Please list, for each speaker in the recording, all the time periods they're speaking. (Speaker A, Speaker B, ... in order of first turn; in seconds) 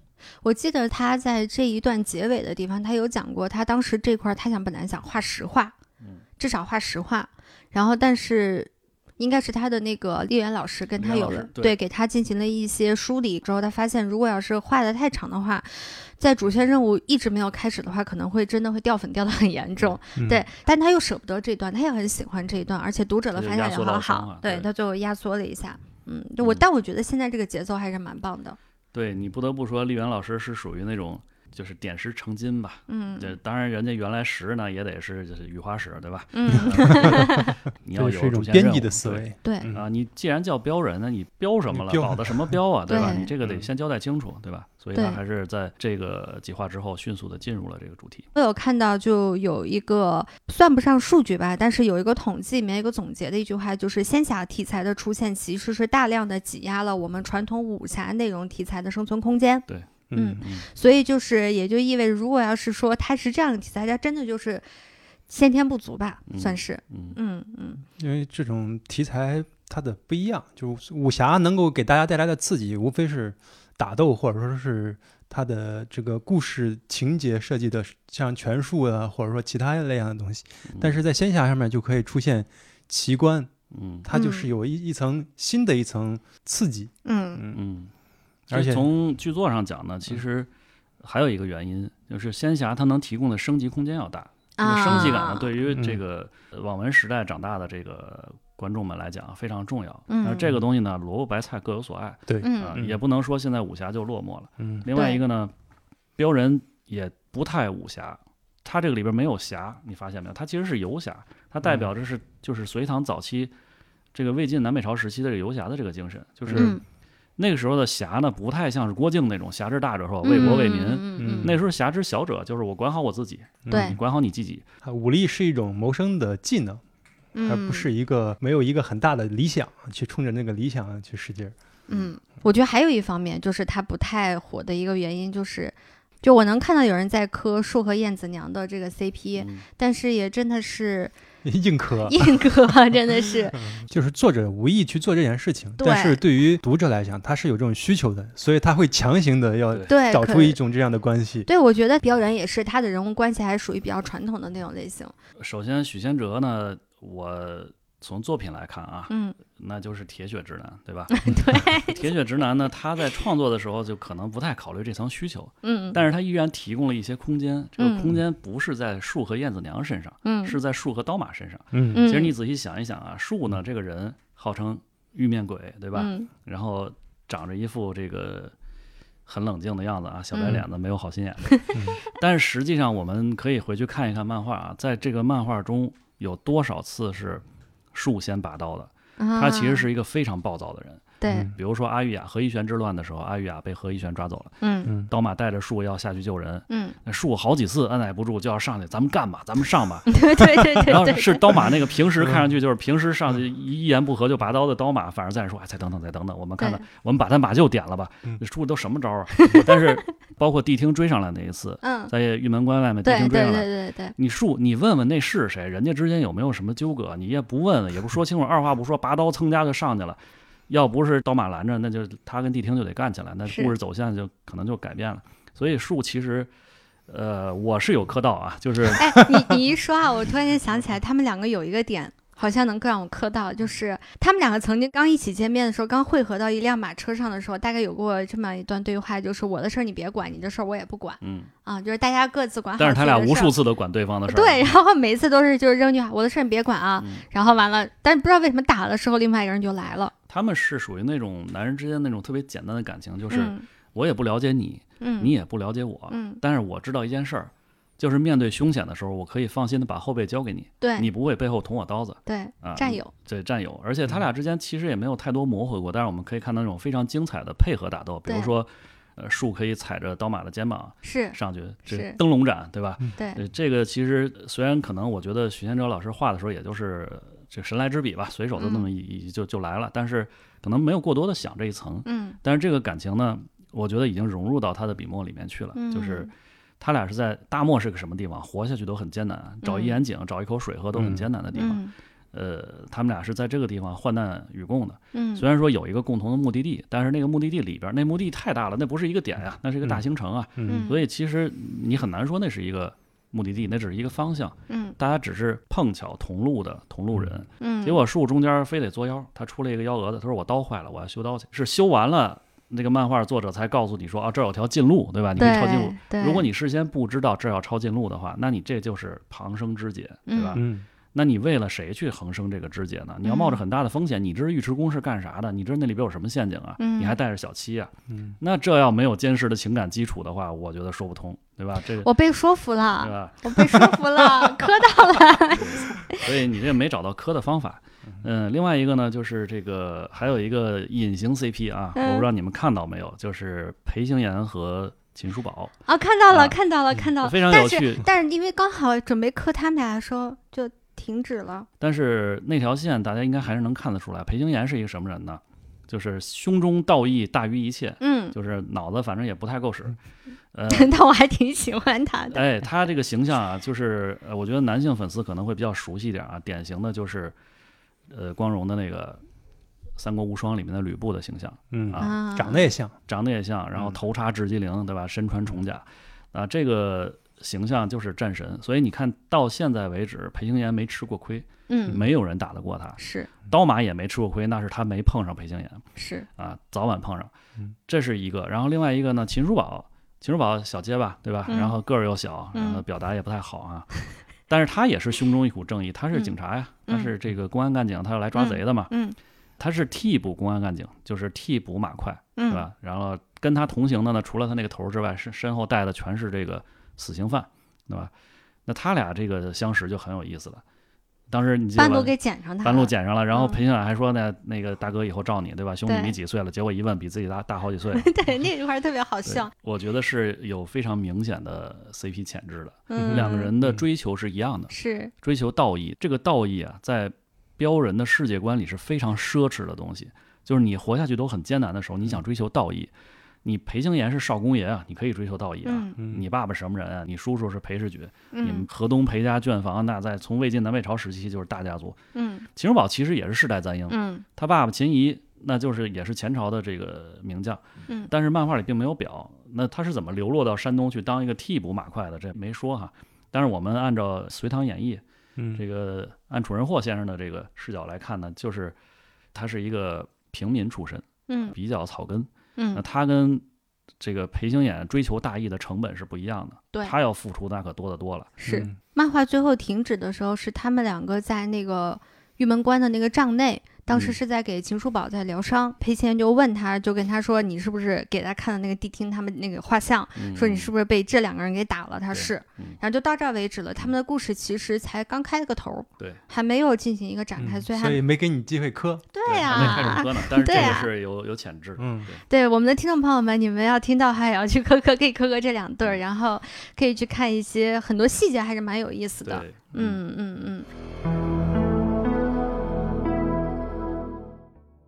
Speaker A: 0.4-5.8, 6.4-28.6, 32.9-33.3, 36.3-37.5, 39.4-39.7, 42.9-43.3, 48.4-64.6, 65.3-67.8, 84.1-84.5, 87.0-87.4, 94.6-95.5, 100.1-100.5, 102.4-102.8, 104.9-105.2, 116.5-116.8, 120.2-121.5, 123.7-124.0, 127.3-127.9, 131.9-141.1, 142.1-143.7, 145.8-146.2, 149.9-150.6, 151.5-155.1, 159.1-159.4, 161.1-162.0, 165.6-166.0, 167.8-168.2, 170.2-170.6, 171.9-172.3, 175.9-176.3, 180.3-180.6, 181.5-181.8, 189.2-189.9, 191.2-191.5, 194.6-194.9, 196.7-197.0, 200.1-201.4, 206.6-206.8, 209.3-209.8, 211.8-212.1, 213.0-214.2, 223.5-223.7, 228.9-243.6, 244.3-250.1, 253.3-253.6, 255.0-255.3, 256.1-256.4, 260.8-261.1, 262.3-263.1, 268.3-268.5, 271.0-271.4, 271.9-272.2, 273.2-273.4, 278.6-278.9, 282.1-282.4, 285.8-286.3, 289.6-290.0, 291.6-291.9, 295.1-295.4, 300.7-301.0, 304.7-305.0, 307.6-308.0, 315.4-316.5, 320.3-320.6, 323.2-323.6, 326.8-327.2, 332.0-336.3, 341.9-342.3, 345.9-351.7, 358.0-358.4, 360.7-362.4, 372.0-372.7, 381.7-382.1, 383.0-383.3, 386.0-386.3, 391.5-391.8, 392.5-392.8, 398.4-399.2, 402.4-402.6, 411.8-413.6, 415.9-416.1, 417.9-419.5, 422.9-423.5, 424.7-425.1, 435.6-436.0, 438.3-438.7, 442.1-442.5, 443.9-444.2, 461.3-461.6, 462.6-462.8, 468.4-488.0, 489.1-490.9, 492.3-500.7
Speaker B: 11.0-11.8, 23.3-24.7, 28.9-48.3, 60.4-60.7, 66.3-67.2, 80.7-81.0, 83.7-84.1, 87.5-87.9, 88.5-90.5, 91.0-105.5, 106.2-113.5, 114.1-116.8, 117.4-124.6, 139.4-139.7, 149.7-150.0, 155.4-178.5, 179.3-187.4, 187.9-200.2, 200.8-226.5, 227.1-229.3, 241.2-241.5, 242.8-244.7, 247.0-247.2, 250.3-291.8, 292.3-332.1, 333.0-333.8, 335.5-345.7, 346.3-346.6, 347.2-348.1, 351.8-360.0, 360.5-360.9, 362.3-367.4, 368.1-369.2, 370.0-372.2, 373.1-385.8, 386.4-387.3, 387.9-398.9, 399.6-408.1, 408.7-410.6, 411.3-418.1, 419.3-432.9, 433.4-442.0, 442.6-455.0, 455.5-458.8, 459.3-463.4, 464.0-468.4, 473.9-474.2, 480.2-480.7, 482.1-482.8, 489.3-492.2, 499.2-500.0
Speaker C: 20.2-20.4, 36.5-39.9, 41.7-42.6, 60.1-60.4, 68.0-83.5, 84.0-87.6, 88.5-88.9, 94.9-95.1, 95.7-96.0, 102.3-103.0, 104.6-104.9, 111.6-111.9, 116.5-116.8, 121.2-121.6, 123.7-124.0, 124.8-126.8, 127.5-131.6, 141.4-142.4, 143.6-151.5, 171.7-172.0, 291.0-291.3, 300.6-300.9, 320.6-320.9, 328.1-328.4, 371.7-372.9, 423.0-423.8, 436.0-436.2, 455.4-455.6, 468.4-468.8, 487.4-490.8, 491.8-492.1